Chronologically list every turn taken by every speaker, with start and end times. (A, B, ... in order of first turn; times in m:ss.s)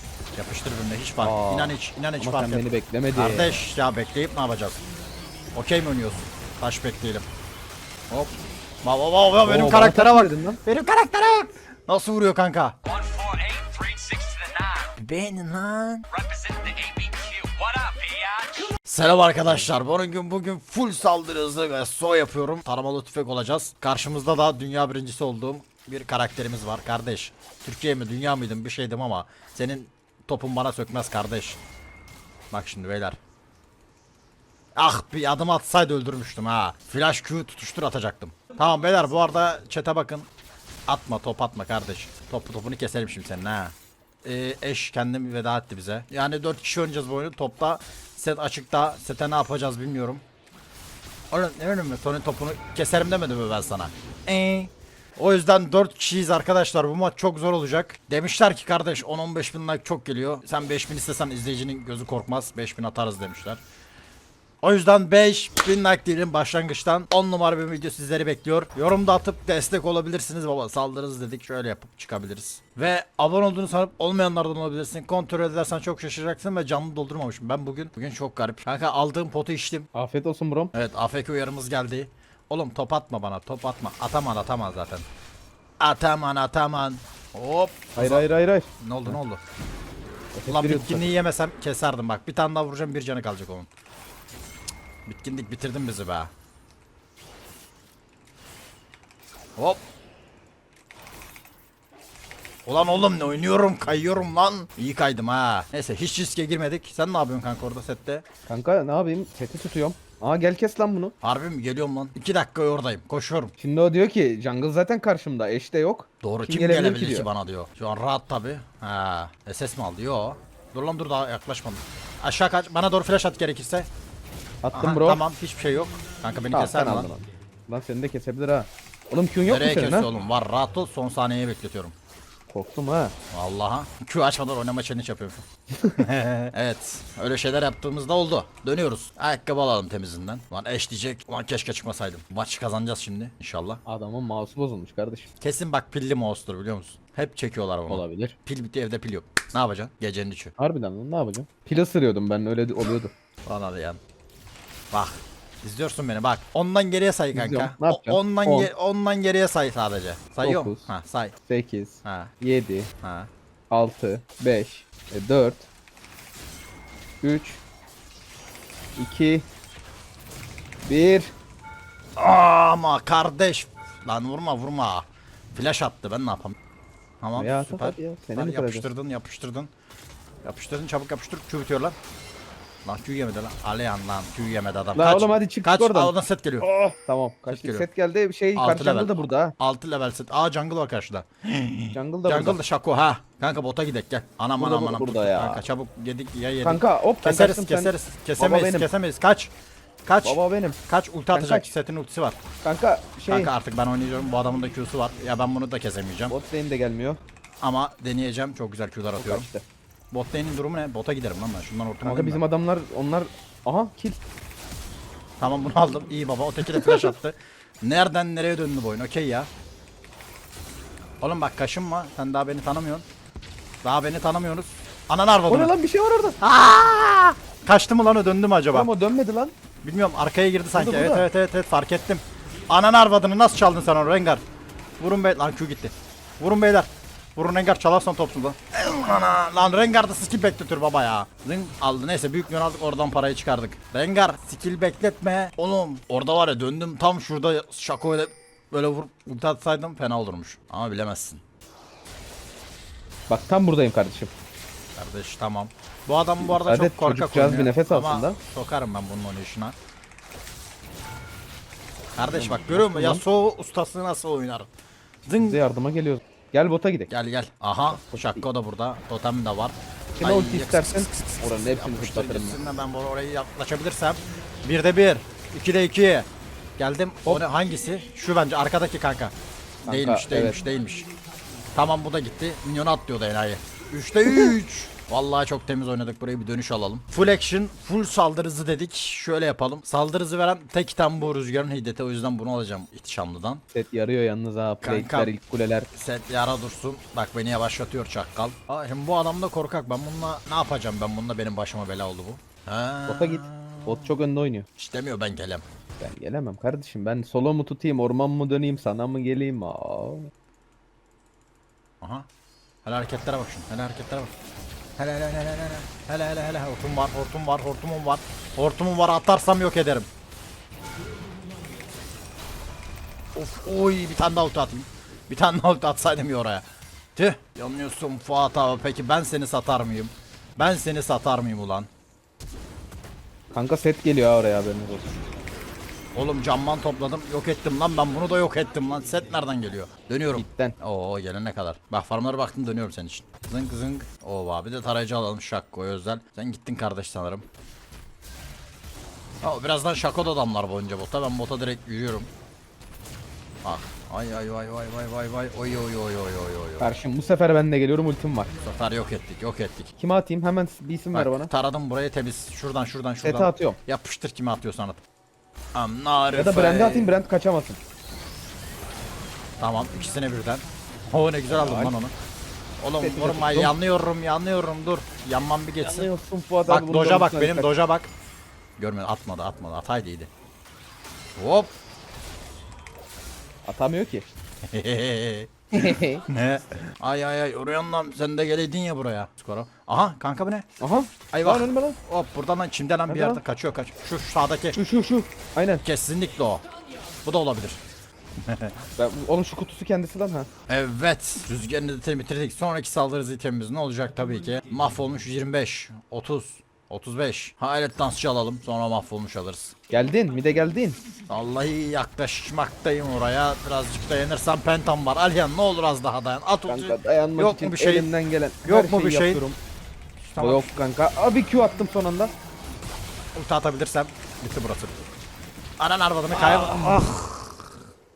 0:00.3-0:04.8 A
0:01.2-0:03.6 B
0:05.5-0:07.3 A
0:08.1-0:12.8 A
0:09.4-0:10.6 B
0:12.8-0:15.0 C
0:15.0-0:16.1 A
0:16.1-0:18.7 C
0:18.8-0:31.6 A
0:32.5-0:33.2 A
0:34.8-0:40.3 A
0:40.9-0:50.2 A
0:51.3-1:03.6 A
1:04.6-1:19.9 A
1:19.9-1:20.7 B
1:20.7-1:25.0 A
1:25.8-1:28.3 A
1:27.9-1:29.2 B
1:28.8-1:29.4 A
1:30.3-1:31.1 B
1:30.5-1:33.7 A
1:35.0-1:36.3 A
1:39.6-1:39.8 A
1:42.6-1:48.2 A
1:48.5-1:51.1 B
1:51.2-1:53.5 A
1:53.6-1:57.3 B
1:56.2-2:03.9 A
2:04.6-2:05.2 B
2:04.7-2:07.1 A
2:06.5-2:10.1 B
2:09.4-2:11.9 A
2:12.5-2:13.1 B
2:13.3-2:23.8 A
2:15.7-2:16.0 B
2:23.8-2:25.3 B
2:25.4-2:30.5 A
2:27.9-2:28.4 B
2:30.6-2:33.1 B
2:33.4-2:34.0 A
2:34.9-2:41.3 A
2:37.3-2:38.7 B
2:40.4-2:40.9 B
2:41.4-2:42.9 B
2:42.0-2:42.3 A
2:43.0-2:43.3 A
2:43.7-2:45.7 B
2:47.2-2:47.6 B
2:49.0-2:49.5 B
2:50.8-2:51.3 B
2:52.2-2:56.6 A
2:57.2-2:59.7 A
2:57.4-2:58.8 B
3:00.4-3:02.0 A
3:02.8-3:06.7 A
3:04.9-3:09.5 B
3:07.5-3:07.8 A
3:08.5-3:19.5 A
3:11.9-3:12.6 B
3:14.6-3:15.6 B
3:16.6-3:18.9 B
3:20.0-3:22.4 A
3:20.2-3:20.8 B
3:21.3-3:21.7 B
3:22.6-3:23.5 B
3:23.3-3:26.3 A
3:26.3-3:27.2 B
3:27.6-3:29.5 A
3:29.2-3:29.6 B
3:30.1-3:32.4 A
3:32.0-3:34.2 B
3:35.4-3:39.5 A
3:36.6-3:37.1 B
3:41.2-3:43.0 A
3:43.8-3:45.7 A
3:45.5-3:46.4 B
3:46.4-3:48.9 A
3:48.7-3:49.5 B
3:49.8-3:54.4 A
3:50.8-3:51.3 B
3:55.0-4:11.4 A
4:13.3-4:14.3 B
4:15.0-4:19.7 A
4:16.4-4:18.4 B
4:22.2-4:24.7 A
4:22.3-4:23.2 B
4:25.2-4:25.6 A
4:25.4-4:27.1 B
4:27.1-4:39.3 A
4:27.9-4:28.4 B
4:30.2-4:32.6 B
4:39.8-4:41.1 A
4:39.9-4:40.6 B
4:41.7-4:53.6 A
4:53.7-4:55.9 B
4:54.8-4:55.3 A
4:55.9-5:04.1 A
5:03.1-5:04.7 B
5:04.8-5:05.6 A
5:06.0-5:10.3 B
5:12.0-5:12.3 A
5:12.8-5:14.3 A
5:15.0-5:20.1 A
5:23.3-5:31.9 A
5:33.5-5:35.2 B
5:36.1-5:47.4 A
5:40.3-5:40.8 B
5:49.4-5:52.3 A
5:53.6-5:56.9 A
5:56.8-5:58.5 B
5:58.6-5:59.9 A
6:00.0-6:01.5 B
6:01.1-6:05.0 A
6:03.2-6:03.8 B
6:05.7-6:07.1 A
6:06.3-6:07.8 B
6:09.6-6:12.1 A
6:11.5-6:11.9 B
6:12.8-6:16.1 A
6:13.0-6:13.8 B
6:15.8-6:17.7 B
6:16.7-6:18.1 A
6:18.8-6:20.3 A
6:21.4-6:21.7 A
6:23.6-6:24.3 B
6:24.7-6:30.6 A
6:25.7-6:26.2 B
6:30.8-6:32.0 B
6:31.3-6:34.8 A
6:33.1-6:33.4 B
6:34.7-6:35.8 B
6:35.8-6:36.6 A
6:37.2-6:37.8 A
6:38.4-6:38.7 A
6:39.0-6:40.5 B
6:40.7-6:49.7 A
6:49.9-6:51.0 B
6:51.3-6:58.1 A
6:56.7-6:59.6 B
6:58.6-6:59.4 A
7:00.2-7:00.8 A
7:00.4-7:02.3 B
7:03.3-7:05.0 A
7:05.8-7:07.6 A
7:06.3-7:07.1 B